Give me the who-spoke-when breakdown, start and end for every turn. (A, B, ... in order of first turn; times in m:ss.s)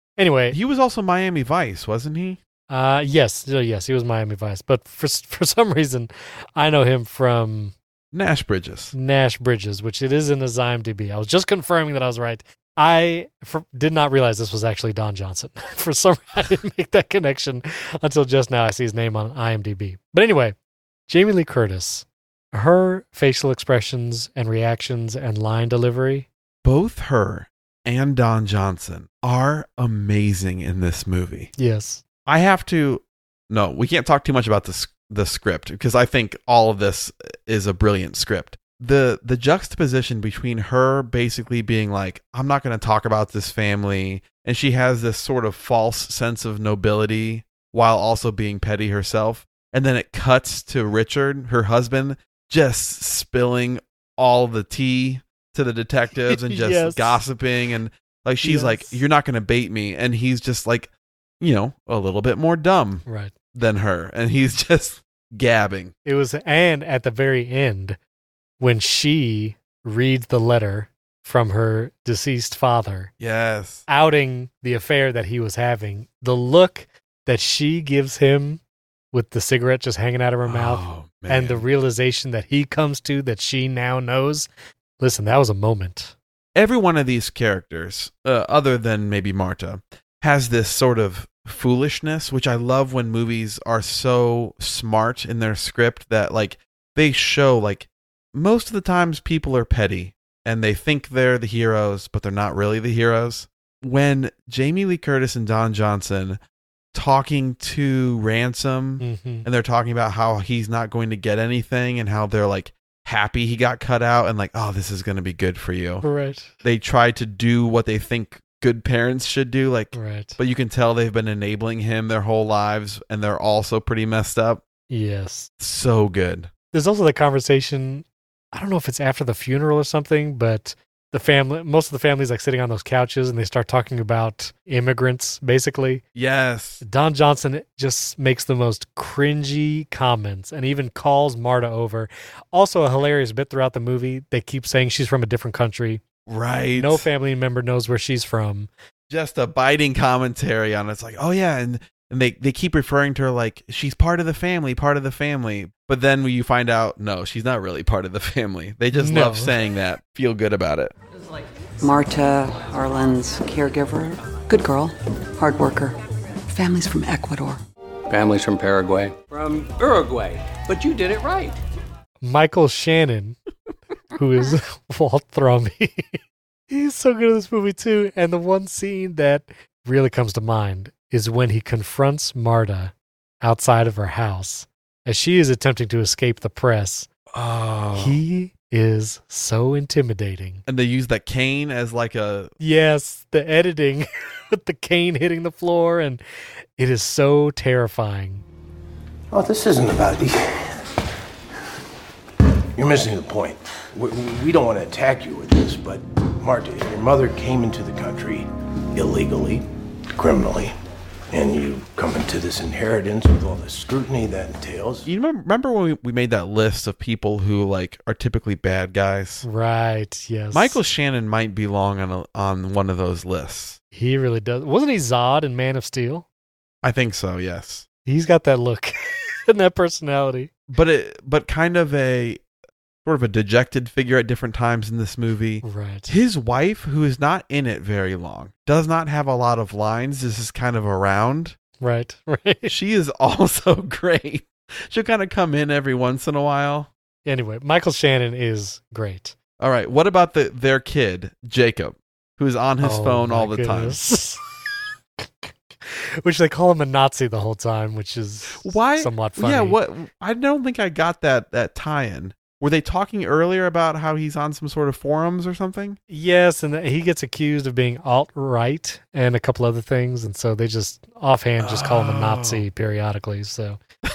0:00.2-0:00.6 A
0:00.5-0:02.4 B
0:02.7-0:07.7 A
0:08.1-0:08.9 B
0:08.9-0:20.6 A
0:21.1-0:26.3 A
0:26.6-0:31.5 B
0:31.6-0:32.0 A
0:32.3-1:05.9 B
0:56.3-0:57.2 A
0:58.4-0:59.0 A
1:03.1-1:03.3 A
1:06.0-1:08.0 A
1:08.6-1:13.1 A
1:13.2-1:13.8 B
1:13.9-1:18.6 A
1:19.1-1:26.1 A
1:20.4-1:21.6 B
1:26.6-1:46.4 B
1:46.9-1:56.0 B
1:49.0-1:49.5 A
1:56.0-1:56.5 A
1:56.6-2:04.6 B
1:59.9-2:00.4 A
2:04.9-2:05.5 A
2:05.6-2:06.5 B
2:06.7-2:16.0 A
2:16.2-2:16.8 B
2:16.8-2:26.0 A
2:26.3-2:27.1 B
2:26.8-2:28.7 A
2:29.1-2:40.9 B
2:38.9-2:39.6 A
2:41.8-2:46.0 C
2:46.5-2:47.6 C
2:48.1-2:51.6 D
2:52.2-2:53.4 A
2:54.1-2:56.2 A
2:56.7-3:07.1 A
3:07.3-3:08.2 B
3:08.0-3:10.6 A
3:10.7-3:12.5 B
3:12.6-3:16.2 A
3:16.8-3:18.4 A
3:19.3-3:20.9 E
3:22.8-3:30.7 E
3:31.3-3:35.1 E
3:35.0-3:39.4 B
3:39.4-3:40.8 A
3:40.5-3:43.8 B
3:43.9-3:46.2 A
3:46.8-3:47.9 B
3:48.1-3:48.9 A
3:49.5-3:50.5 A
3:50.7-3:52.4 B
3:53.0-4:01.6 B
3:55.6-3:56.1 A
4:01.8-4:02.7 A
4:02.7-4:06.9 B
4:07.2-4:09.4 A
4:09.6-4:14.0 B
4:12.8-4:14.4 A
4:15.2-4:19.8 A
4:18.6-4:26.0 B
4:26.1-4:33.8 A
4:31.6-4:32.7 B